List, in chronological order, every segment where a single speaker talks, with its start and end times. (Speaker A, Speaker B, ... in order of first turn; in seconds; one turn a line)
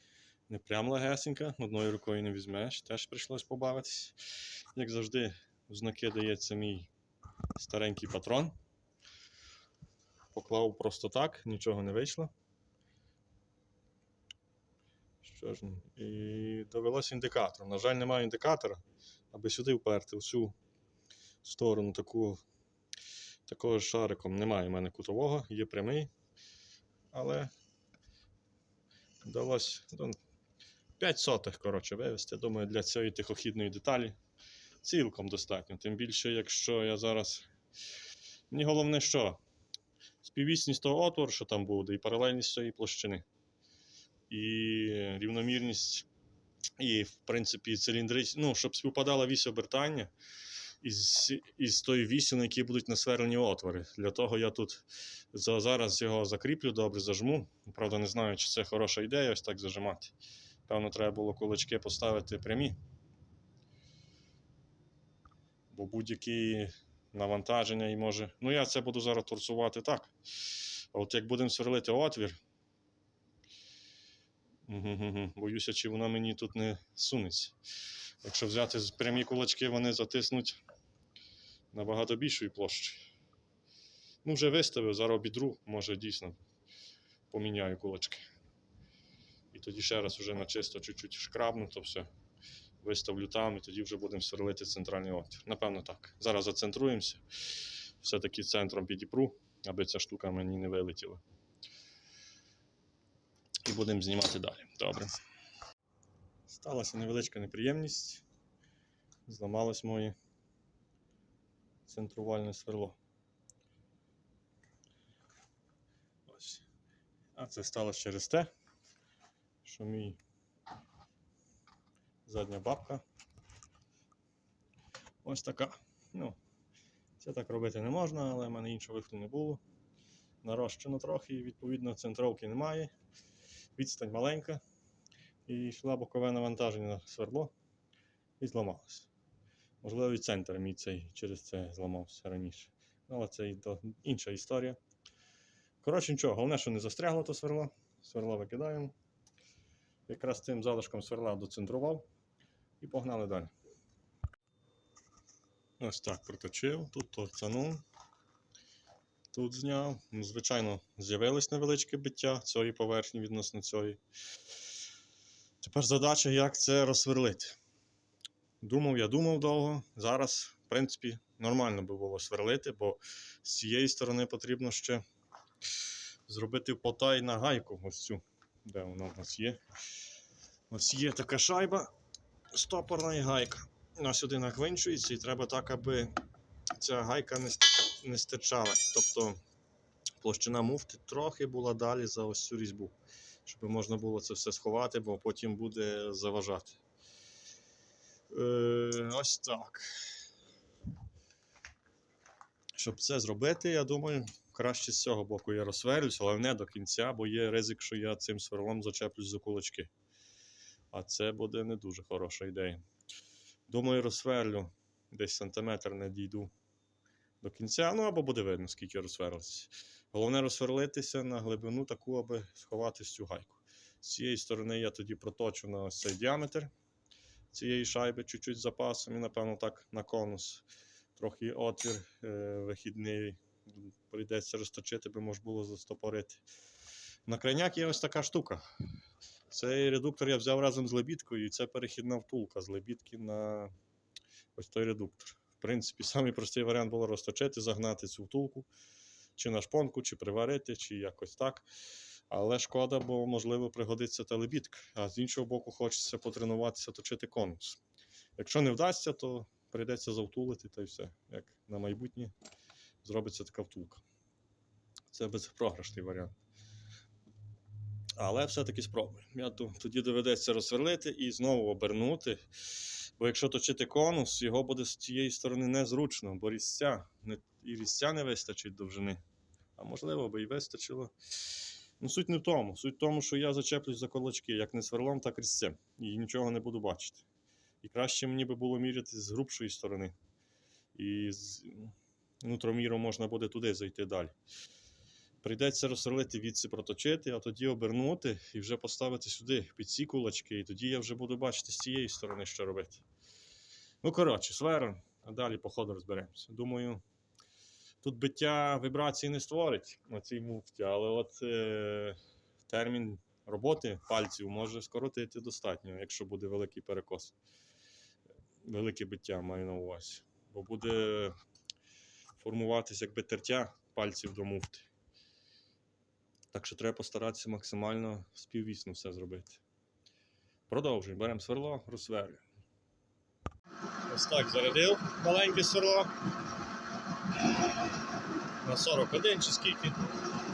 Speaker A: 0.5-4.2
Speaker A: 4.7-6.9
Speaker A: 7.5-8.5
Speaker A: 10.3-12.3
Speaker A: 15.2-20.5
Speaker A: 21.4-22.4
Speaker A: 23.5-26.1
Speaker A: 27.1-27.5
Speaker A: 29.2-30.2
Speaker A: 31.0-34.2
Speaker A: 34.8-37.5
Speaker A: 38.5-39.4
Speaker A: 40.2-43.2
Speaker A: 44.3-46.0
Speaker A: 46.8-50.1
Speaker A: 50.8-60.1
Speaker A: 60.7-62.8
Speaker A: 65.7-72.4
Speaker A: 74.7-77.5
Speaker A: 78.2-80.6
Speaker A: 81.7-83.1
Speaker A: 84.2-86.4
Speaker A: 87.3-88.2
Speaker A: 89.5-92.1
Speaker A: 92.8-101.2
Speaker A: 103.6-105.2
Speaker A: 106.5-108.2
Speaker A: 109.2-110.1
Speaker A: 111.8-113.0
Speaker A: 116.3-116.6
Speaker A: 117.3-118.5
Speaker A: 119.6-120.2
Speaker A: 122.2-123.0
Speaker A: 125.2-126.4
Speaker A: 127.2-129.6
Speaker A: 130.4-132.9
Speaker A: 133.8-134.6
Speaker A: 135.5-137.5
Speaker A: 138.4-139.1
Speaker A: 139.8-144.8
Speaker A: 145.8-148.9
Speaker A: 150.1-152.1
Speaker A: 152.8-153.5
Speaker A: 155.8-157.8
Speaker A: 159.3-164.0
Speaker A: 165.6-167.6
Speaker A: 168.6-175.0
Speaker A: 176.3-179.6
Speaker A: 180.7-181.9
Speaker A: 182.5-186.2
Speaker A: 186.7-189.4
Speaker A: 190.2-192.9
Speaker A: 193.5-196.8
Speaker A: 198.3-200.1
Speaker A: 202.8-209.9
Speaker A: 210.9-212.8
Speaker A: 213.7-216.5
Speaker A: 217.4-226.7
Speaker A: 227.5-230.7
Speaker A: 231.2-236.4
Speaker A: 237.3-238.7
Speaker A: 239.5-243.7
Speaker A: 244.6-248.7
Speaker A: 249.4-251.7
Speaker A: 252.3-257.8
Speaker A: 258.4-262.3
Speaker A: 263.0-264.0
Speaker A: 265.1-266.3
Speaker A: 268.1-279.2
Speaker A: 279.8-281.1
Speaker A: 282.0-287.2
Speaker A: 287.8-290.1
Speaker A: 290.9-294.3
Speaker A: 295.4-303.0
Speaker A: 304.0-307.0
Speaker A: 308.0-317.3
Speaker A: 318.6-321.3
Speaker A: 322.4-324.9
Speaker A: 326.5-329.6
Speaker A: 330.7-332.4
Speaker A: 334.1-336.1
Speaker A: 338.6-340.0